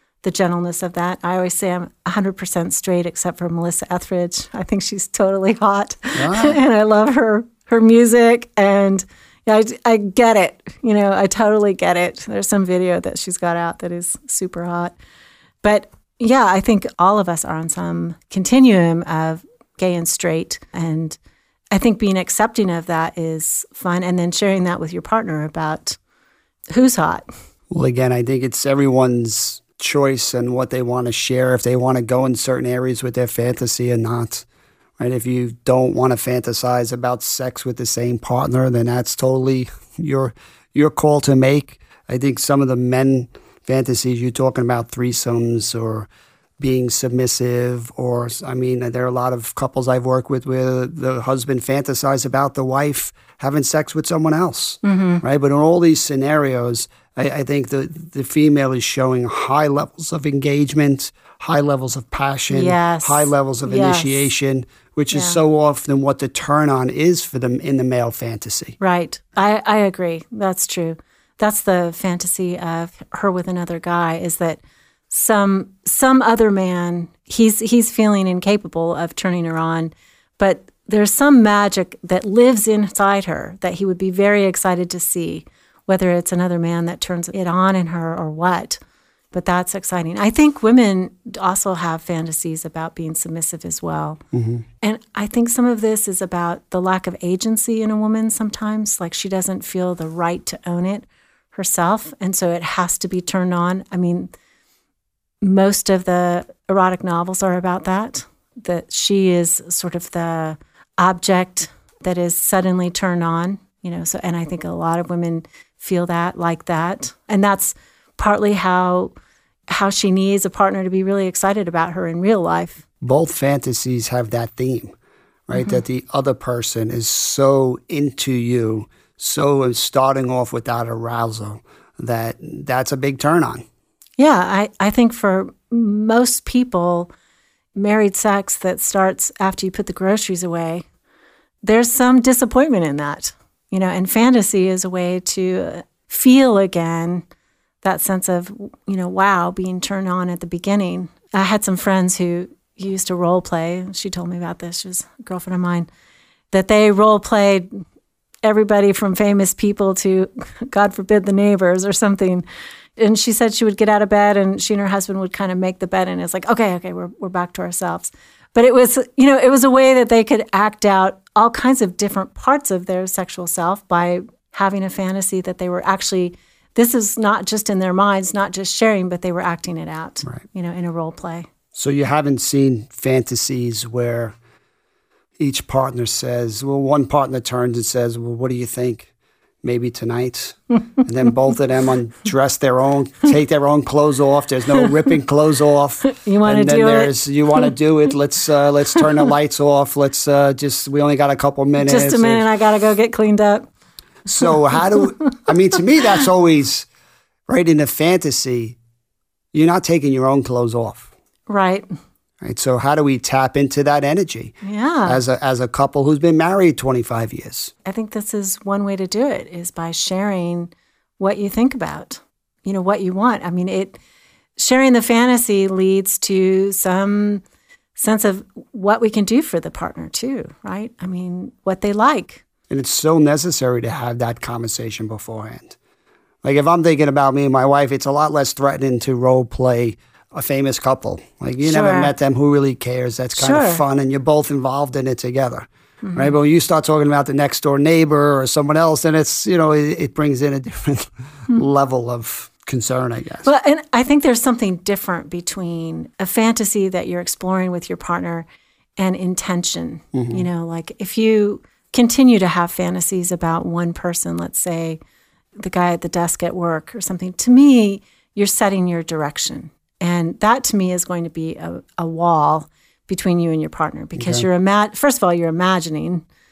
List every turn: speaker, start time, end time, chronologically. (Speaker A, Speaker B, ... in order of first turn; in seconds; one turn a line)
Speaker A: 0.2-14.9
Speaker B: 6.1-6.6
Speaker A: 15.6-21.2
Speaker A: 21.7-26.0
Speaker A: 26.7-27.3
Speaker B: 27.7-34.5
Speaker B: 35.0-46.1
Speaker B: 46.6-68.8
Speaker A: 54.8-55.2
Speaker A: 62.5-64.3
Speaker A: 65.1-65.4
Speaker A: 68.8-88.8
Speaker A: 89.3-94.2
Speaker B: 94.3-94.6
Speaker A: 94.8-104.3
Speaker A: 105.4-119.1
Speaker A: 119.7-122.8
Speaker B: 123.0-124.9
Speaker B: 125.5-133.6
Speaker A: 125.5-125.8
Speaker A: 134.2-137.1
Speaker A: 137.7-140.8
Speaker A: 141.6-147.2
Speaker A: 147.8-155.9
Speaker A: 156.5-157.8
Speaker A: 158.4-162.4
Speaker A: 163.0-181.5
Speaker B: 181.7-184.3
Speaker B: 185.4-189.1
Speaker B: 189.6-202.4
Speaker A: 196.0-197.7
Speaker A: 201.8-203.7
Speaker B: 204.3-206.9
Speaker A: 204.3-205.3
Speaker B: 207.5-208.8
Speaker B: 209.5-211.1
Speaker A: 211.5-211.9
Speaker B: 212.4-217.7
Speaker A: 214.6-215.2
Speaker A: 217.8-224.0
Speaker A: 224.6-227.4
Speaker A: 227.9-232.4
Speaker B: 232.7-235.8
Speaker B: 236.4-253.5
Speaker A: 241.6-242.1
Speaker A: 243.4-243.8
Speaker A: 246.0-246.3
Speaker A: 253.4-258.5
Speaker A: 259.0-265.0
Speaker B: 260.1-260.4
Speaker A: 265.6-276.2
Speaker B: 274.2-274.4